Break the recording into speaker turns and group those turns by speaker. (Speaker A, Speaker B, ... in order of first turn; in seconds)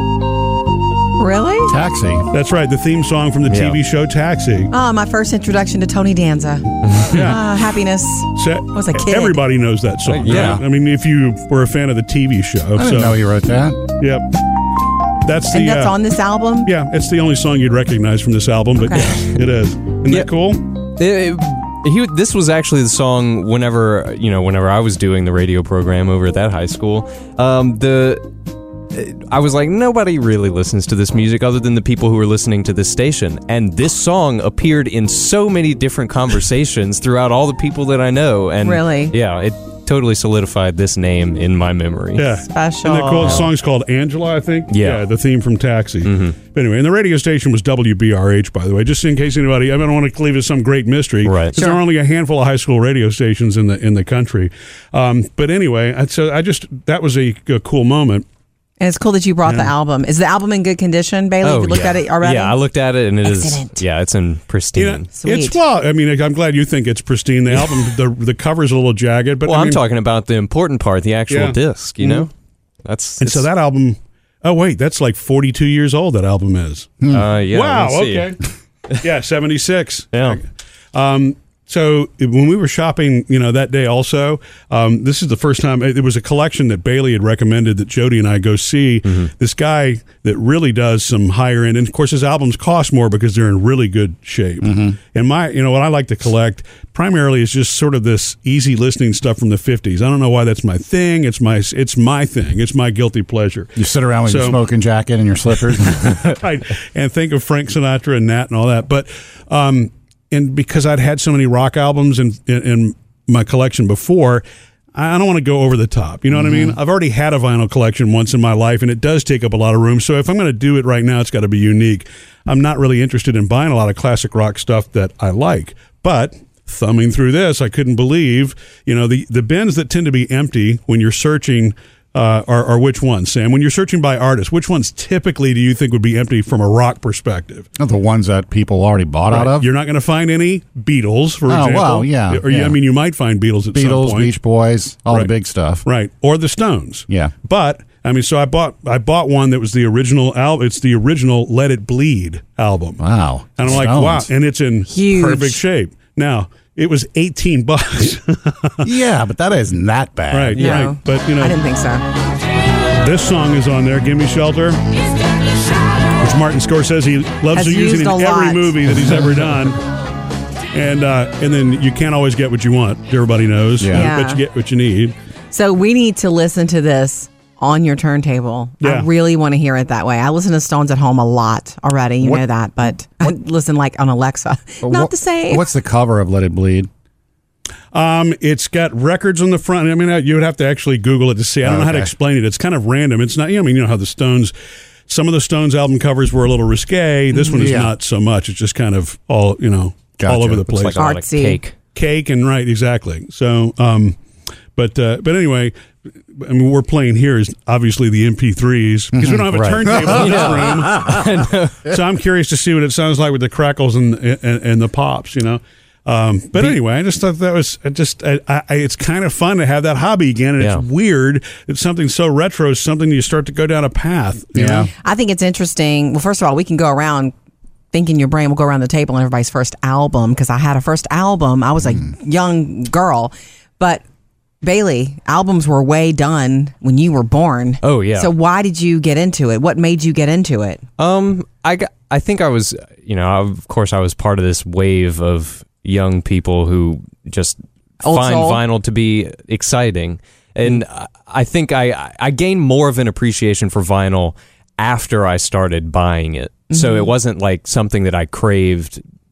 Speaker A: 1.2-1.7, 4.7-9.4, 15.5-16.7, 18.8-19.1, 38.6-39.1, 42.5-43.4, 51.5-51.8, 58.8-62.6, 63.2-63.8, 65.1-65.6, 154.9-155.6, 160.6-162.0, 167.5-168.9, 173.9-174.4, 175.5-185.7, 201.0-201.6, 225.0-227.3, 227.9-234.0, 234.6-240.8, 248.0-248.6, 256.7-257.1
Speaker B: 1.7-2.3, 10.2-10.6, 12.8-13.8, 94.6-95.0, 103.8-106.2, 137.8-139.7, 141.5-142.8, 143.7-145.8, 153.0-154.3, 158.8-160.7, 173.8-174.1, 184.8-186.9, 191.6-192.1, 197.5-197.9, 200.2-200.7, 210.0-211.1, 224.5-224.9
Speaker C: 2.3-4.7, 7.1-7.4, 8.3-13.2, 14.0-14.3, 15.2-15.9, 16.6-20.7, 42.1-58.2, 59.5-59.7, 64.8-69.8, 71.3-72.2, 73.2-78.4, 79.0-104.6, 105.9-137.7, 139.3-144.3, 145.8-153.0, 153.6-158.9, 160.3-161.6, 163.0-164.8, 166.2-169.8, 170.7-175.1, 178.8-179.1, 187.9-194.5, 195.1-201.1, 201.9-204.2, 204.7-205.7, 206.3-211.1, 211.8-224.9
Speaker D: 3.5-3.8, 6.9-7.2, 10.1-10.6, 19.0-19.4, 20.9-28.3, 28.9-42.3, 43.2-43.5, 44.7-45.0, 46.0-46.4, 51.2-51.6, 61.4-65.1, 67.5-67.9, 69.4-72.3, 72.8-73.5, 77.1-78.3, 80.1-80.4, 89.0-89.3, 200.7-201.7, 209.5-211.8, 220.6-220.8, 237.8-238.3, 241.0-259.0